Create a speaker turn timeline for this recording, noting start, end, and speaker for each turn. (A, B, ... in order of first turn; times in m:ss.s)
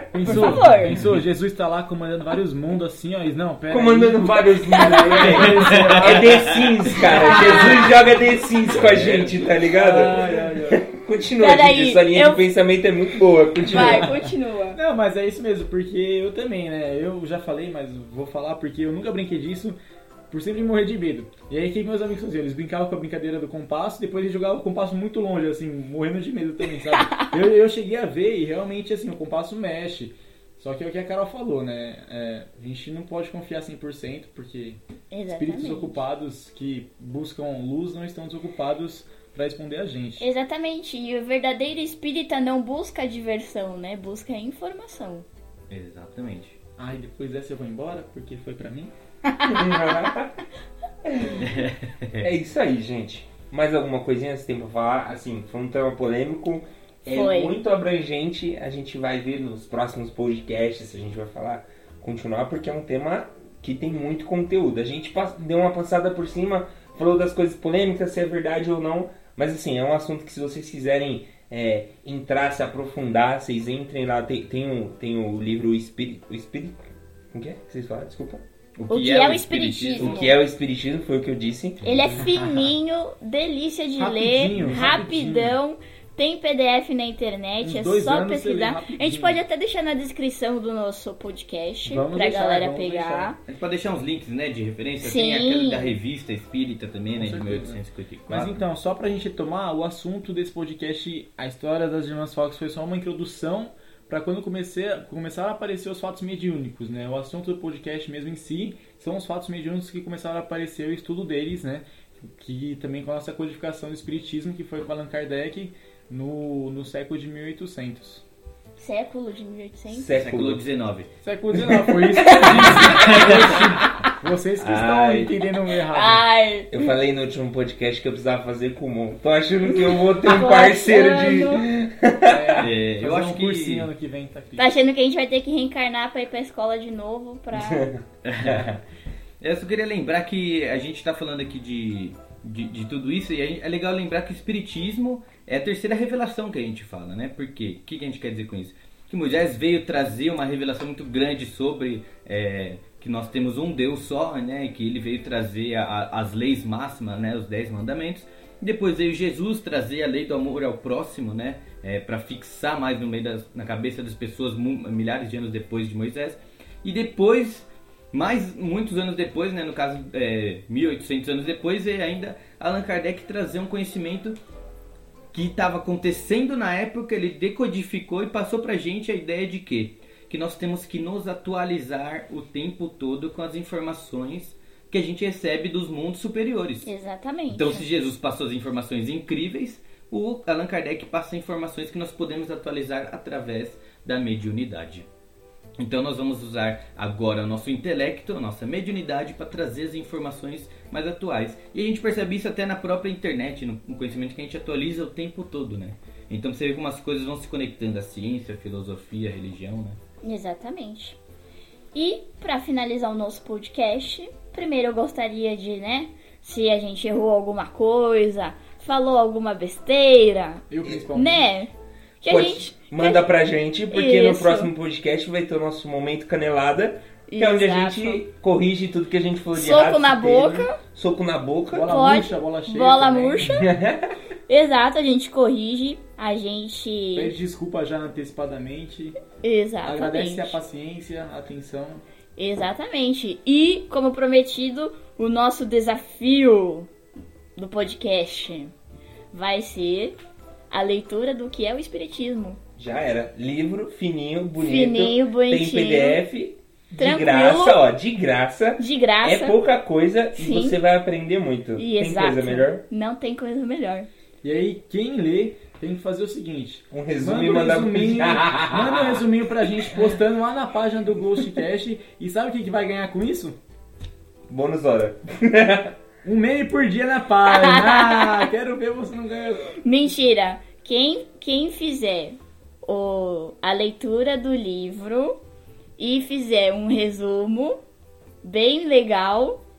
0:00.1-0:06.0 A
0:00.2-0:00.5 B
0:00.2-0:01.0 C
0:03.7-0:14.1 B
0:04.6-0:05.6 C
0:05.7-0:06.4 D
0:07.2-0:07.8 C
0:08.9-0:10.8 A
0:11.4-0:12.5 C
0:13.7-0:14.8 C
0:14.7-0:19.8 A
0:20.3-0:34.8 A
0:35.1-0:36.0 C
0:35.3-0:40.3 A
0:40.2-0:45.2 C
0:45.7-0:46.6 D
0:46.8-0:48.9 A
0:49.3-0:49.6 C
0:49.4-0:50.4 B
0:51.0-0:51.5 B
0:51.4-0:52.3 D
0:52.2-1:16.8 B
0:57.0-0:57.5 C
1:17.3-1:18.4 B
1:18.8-1:20.2 D
1:18.9-1:20.3 C
1:20.0-1:21.8 B
1:21.8-1:33.4 C
1:24.0-1:25.6 A
1:27.6-1:29.4 A
1:31.8-1:33.4 A
1:33.5-1:38.6 D
1:35.0-1:35.9 C
1:37.2-1:58.2 A
1:58.8-2:00.1 C
1:59.9-2:00.6 B
2:00.1-2:01.1 D
2:01.2-2:06.2 A
2:02.1-2:03.3 C
2:03.0-2:03.6 D
2:04.6-2:05.3 B
2:05.9-2:06.7 C
2:06.7-2:12.7 B
2:09.8-2:11.6 C
2:12.3-2:14.7 A
2:12.6-2:13.9 D
2:14.6-2:17.9 C
2:17.5-2:18.8 B
2:18.2-2:18.8 D
2:19.4-2:54.4 D
2:55.3-3:06.9 D
3:06.8-3:07.8 C
3:07.5-3:15.0 D
3:15.8-3:30.0 D
3:30.2-3:31.2 C
3:31.9-3:43.2 C
3:40.7-3:41.5 A
3:42.2-3:52.0 B
3:43.9-3:44.7 C
3:47.3-3:48.2 C
3:49.5-3:50.8 C
3:51.7-3:53.5 A
3:51.9-3:53.7 C
3:53.5-3:54.1 B
3:54.5-3:57.3 C
3:57.1-3:59.2 A
3:59.4-4:00.6 C
3:59.8-4:02.0 A
4:02.4-4:06.9 C
4:07.6-4:08.7 C
4:09.3-4:10.2 C
4:10.7-4:12.6 C
4:12.8-4:22.8 B
4:14.6-4:16.2 C
4:17.0-4:17.9 C
4:18.8-4:19.6 C
4:20.3-4:20.8 C
4:21.8-4:24.1 C
4:24.4-4:33.6 A
4:26.9-4:29.2 B
4:34.5-4:35.9 B
4:36.2-4:39.8 A
4:37.5-4:38.5 C
4:39.8-4:45.4 C
4:46.0-4:47.8 C
4:48.4-4:49.6 C